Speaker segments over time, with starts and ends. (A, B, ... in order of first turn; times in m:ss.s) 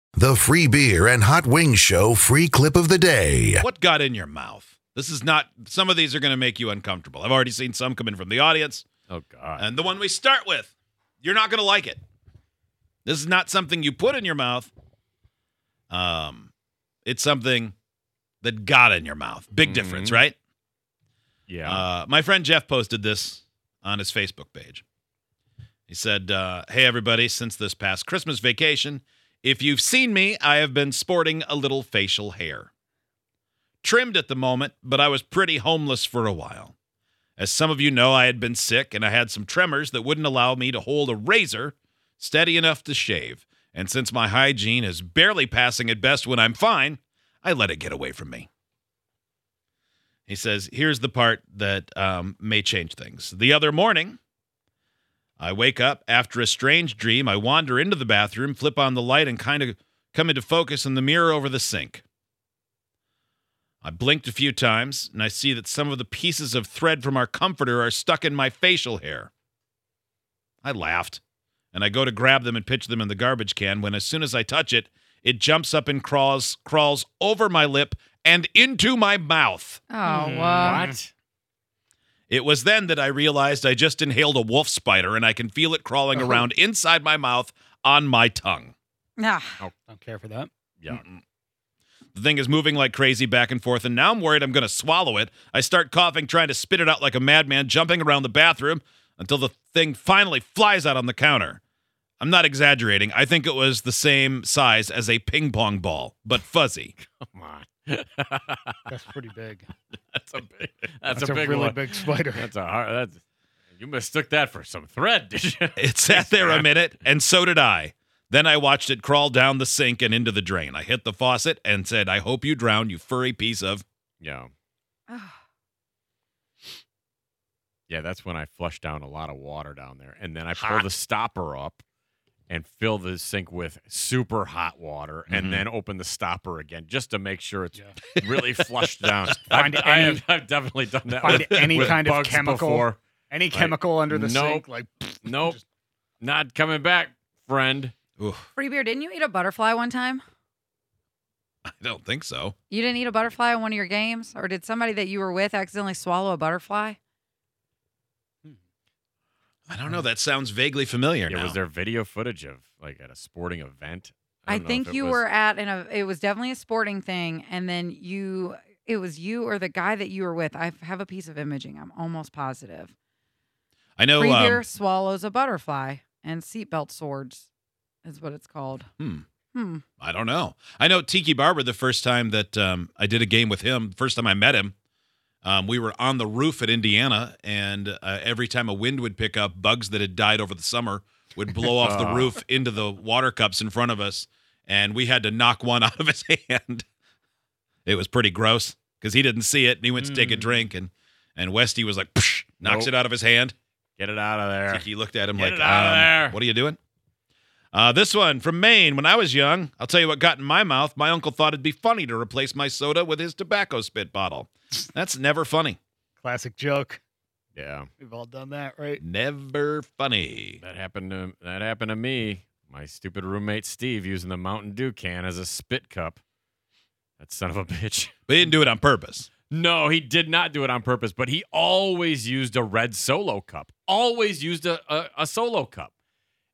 0:00.2-0:03.7 A
0:03.6-0:08.9 B
0:09.1-0:09.7 C
0:09.6-0:12.0 B
0:13.0-0:14.7 B
0:15.9-0:16.5 B
0:17.1-0:17.8 B
0:18.4-0:20.4 B
0:19.6-0:20.2 C
0:21.5-0:21.9 C
0:21.6-0:24.8 B
0:25.9-0:32.7 B
0:33.8-0:36.7 B
0:37.4-0:48.5 B
0:50.3-0:54.2 B
0:55.4-1:02.0 B
1:03.8-1:09.3 B
1:10.6-1:11.2 B
1:11.7-1:19.8 B
1:19.9-1:20.8 D
1:20.1-1:21.0 E
1:20.5-1:21.1 C
1:22.3-1:28.7 B
1:29.2-1:29.6 D
1:29.8-1:30.5 E
1:32.2-1:41.6 B
1:42.2-1:47.0 B
1:47.0-1:48.8 C
1:48.9-1:49.7 E
1:50.2-1:53.2 C
1:51.1-1:52.5 E
1:53.8-1:56.8 C
1:55.8-2:03.8 B
2:04.2-2:04.5 C
2:05.1-2:05.4 D
2:07.9-2:11.8 C
2:12.5-2:23.0 C
2:15.3-2:15.6 B
2:19.5-2:20.2 E
2:21.2-2:25.6 E
2:21.3-2:22.0 B
2:23.5-2:24.6 C
2:25.2-2:25.6 C
2:26.2-2:27.9 C
2:28.2-2:28.5 B
2:28.6-2:30.2 D
2:31.7-2:32.6 B
2:32.7-2:37.0 D
2:39.7-2:41.6 B
2:41.3-2:45.2 C
2:44.5-2:52.9 D
2:54.0-2:54.6 B
2:54.2-2:57.5 D
2:58.0-2:58.9 D
2:59.0-2:59.2 B
2:59.5-2:59.8 D
3:00.0-3:04.7 B
3:05.4-3:16.8 B
3:11.8-3:12.4 C
3:17.9-3:23.5 B
3:20.0-3:20.6 E
3:22.6-3:22.9 C
3:24.0-3:26.4 C
3:24.7-3:26.8 B
3:27.7-3:35.8 B
3:36.2-3:37.0 E
3:37.6-3:37.9 C
3:38.0-3:39.0 E
3:39.0-3:40.6 B
3:40.6-3:46.2 C
3:47.2-3:48.1 C
3:48.3-3:49.3 B
3:49.5-3:55.9 C